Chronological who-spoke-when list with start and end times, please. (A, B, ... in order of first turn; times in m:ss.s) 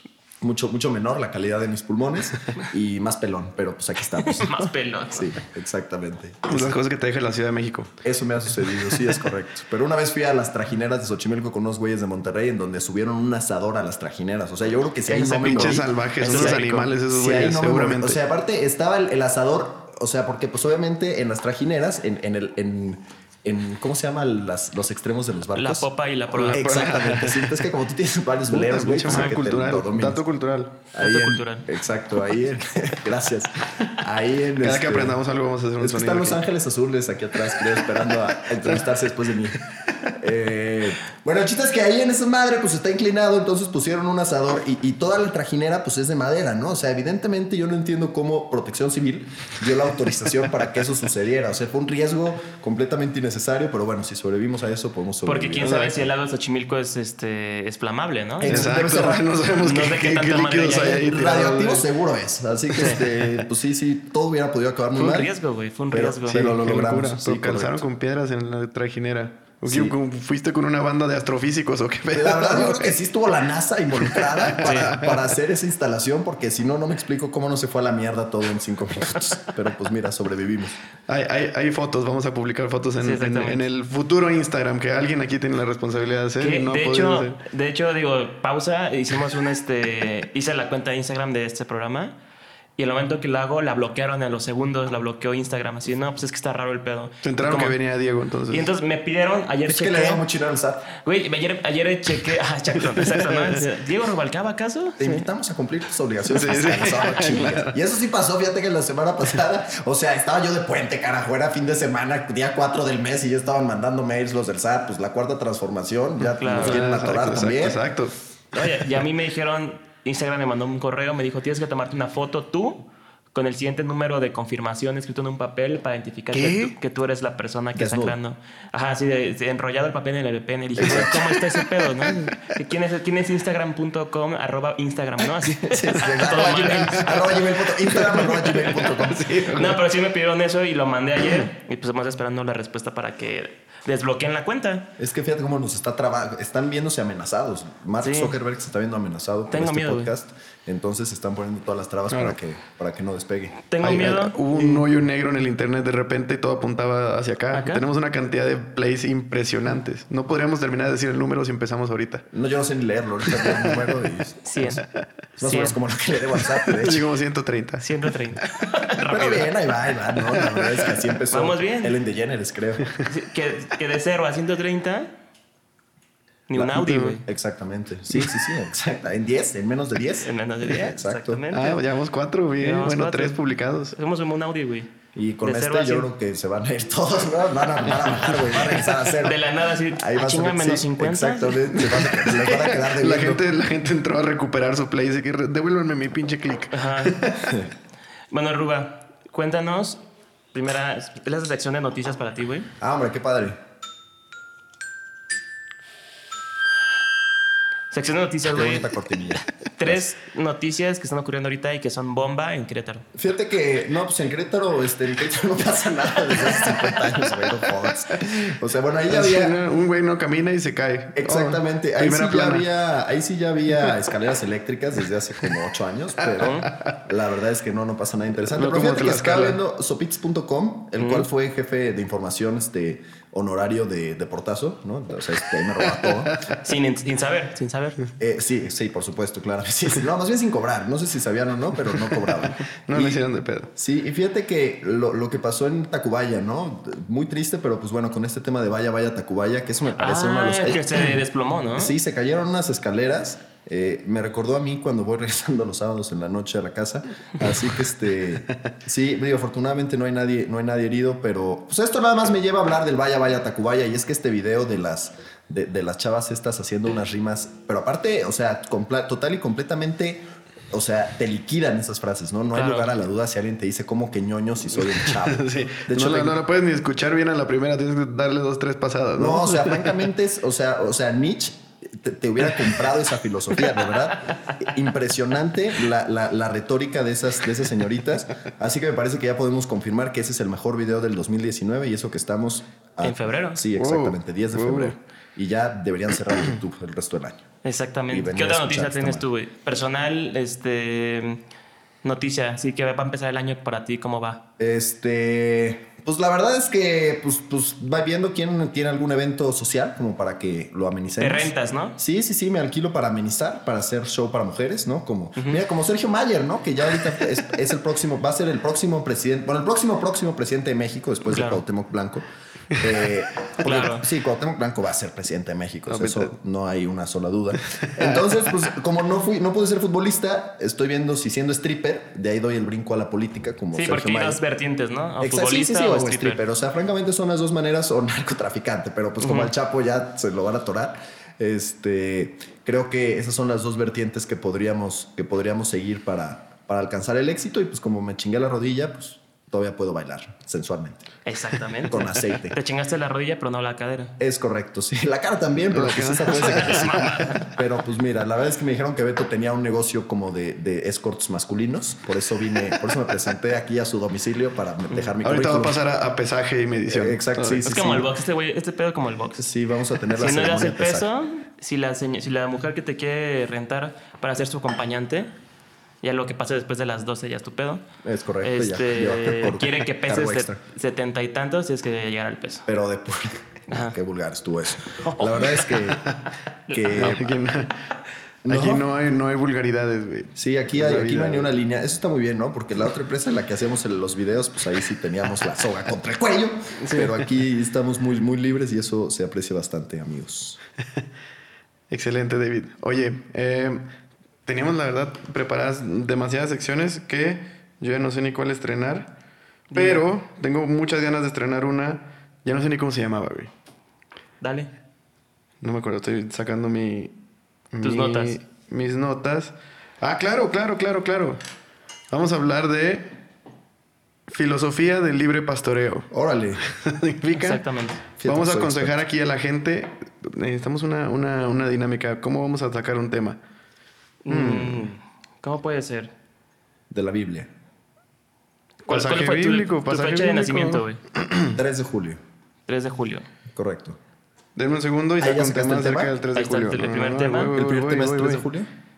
0:00.4-0:06.8 A
0:04.2-0:05.4 B
0:06.5-0:08.0 C
0:08.0-0:25.9 A
0:15.1-0:18.2 C
0:15.4-0:16.9 B
0:25.5-0:26.8 B
0:26.3-0:27.6 C
0:26.5-0:30.2 A
0:28.5-0:30.8 C
0:30.9-0:35.2 A
0:31.0-0:31.6 B
0:34.6-0:36.4 C
0:35.8-0:56.1 A
0:55.2-0:58.7 B
0:55.6-0:56.0 C
0:58.4-0:59.3 A
0:58.4-1:01.8 C
0:59.6-1:01.1 B
1:01.0-1:05.3 A
1:02.7-1:03.0 B
1:05.0-1:06.5 B
1:05.9-1:07.8 A
1:06.3-1:13.0 C
1:09.6-1:10.0 A
1:12.1-1:20.8 A
1:14.0-1:15.2 C
1:14.6-1:14.9 B
1:21.1-1:27.4 C
1:23.0-1:23.6 B
1:26.4-1:32.1 B
1:32.8-1:37.8 B
1:37.2-1:38.7 C
1:38.5-1:40.2 B
1:39.7-1:40.9 A
1:40.9-1:45.2 B
1:42.9-1:43.6 C
1:45.0-1:57.8 A
1:46.3-1:47.7 C
1:56.2-1:56.8 B
1:56.5-1:58.1 C
1:58.5-2:17.3 B
2:07.7-2:08.2 A
2:10.8-2:11.3 A
2:11.0-2:12.1 C
2:15.4-2:19.4 A
2:17.8-2:19.8 C
2:19.5-2:24.9 B
2:25.0-2:33.6 A
2:28.0-2:28.4 B
2:29.5-2:30.1 B
2:32.1-2:32.4 C
2:33.7-2:34.8 B
2:33.8-2:42.3 C
2:37.5-2:37.8 B
2:42.3-2:44.8 A
2:43.3-2:43.9 C
2:44.4-2:44.8 B
2:45.4-2:45.8 B
2:45.4-2:47.0 A
2:46.6-2:47.9 C
2:47.8-2:49.5 B
2:49.0-2:52.9 A
2:50.3-2:50.9 C
2:51.3-2:51.9 B
2:53.0-2:55.1 B
2:56.5-2:57.2 B
2:56.6-3:01.4 A
2:56.6-2:57.2 C
3:00.2-3:01.8 B
3:01.5-3:04.0 C
3:02.6-3:03.4 B
3:03.9-3:04.9 B
3:05.1-3:13.4 A
3:05.4-3:06.1 B
3:09.1-3:11.7 B
3:11.7-3:17.6 C
3:16.7-3:17.2 B
3:18.3-3:20.0 B
3:20.5-3:22.7 B
3:22.8-3:23.6 A
3:27.9-3:29.0 B
3:28.5-3:30.0 A
3:29.8-3:33.0 B
3:33.1-3:39.6 A
3:39.1-3:42.7 C
3:41.2-3:56.4 A
3:46.4-3:46.7 B
3:46.6-3:46.9 C
3:48.5-3:49.6 C
3:51.0-3:51.3 B
3:55.8-3:56.6 C
3:56.6-3:58.0 B
3:58.2-4:03.2 A
4:02.8-4:03.7 C
4:03.8-4:11.1 A
4:10.0-4:11.9 B
4:11.7-4:36.4 A
4:32.5-4:32.9 B
4:34.8-4:40.0 C
4:39.2-4:57.5 A
4:53.0-4:53.6 B
4:53.8-4:55.0 C
4:57.6-5:01.4 B
4:58.1-4:59.2 A
5:02.0-5:04.4 B
5:04.6-5:34.4 A
5:11.2-5:12.0 B
5:21.3-5:21.6 B
5:23.6-5:24.0 B
5:25.9-5:26.3 C
5:27.8-5:28.3 C
5:33.7-5:36.4 B
5:35.2-5:51.1 A
5:39.2-5:39.5 B
5:51.2-5:54.1 B
5:51.9-5:52.6 A
5:54.2-6:05.8 A
5:55.7-5:57.3 C
6:04.9-6:05.1 B
6:05.2-6:07.8 C
6:06.9-6:08.1 A
6:07.6-6:09.4 B
6:09.4-6:11.1 A
6:10.1-6:15.3 B
6:16.0-6:17.8 B
6:18.0-6:20.6 A
6:18.4-6:22.6 B
6:22.7-6:26.0 A
6:23.7-6:24.0 B
6:25.0-6:25.8 B
6:26.7-6:27.2 B
6:26.7-6:27.3 A
6:26.9-6:27.8 C
6:28.4-6:28.8 A
6:28.5-6:31.5 C
6:30.3-6:40.6 A
6:36.8-6:37.2 B
6:41.9-6:43.9 C
6:44.4-6:49.1 C
6:49.7-6:50.0 B
6:49.7-6:53.5 C
6:54.4-6:54.7 B
6:55.6-6:57.1 C
6:57.7-7:01.4 C
6:57.8-6:58.4 B
7:02.1-7:03.1 C
7:04.3-7:06.1 C
7:06.1-7:06.6 A
7:06.6-7:07.6 C
7:07.4-7:08.0 B
7:08.2-7:09.0 A
7:08.2-7:13.4 C
7:14.2-7:16.1 B
7:14.3-7:14.9 C
7:16.9-7:17.5 A
7:18.9-7:21.0 B
7:18.9-7:21.6 C
7:21.5-7:22.2 A
7:22.7-7:23.2 B
7:23.5-7:24.0 A
7:24.6-7:28.5 C
7:25.2-7:26.2 A
7:26.3-7:27.5 B
7:27.5-7:28.7 A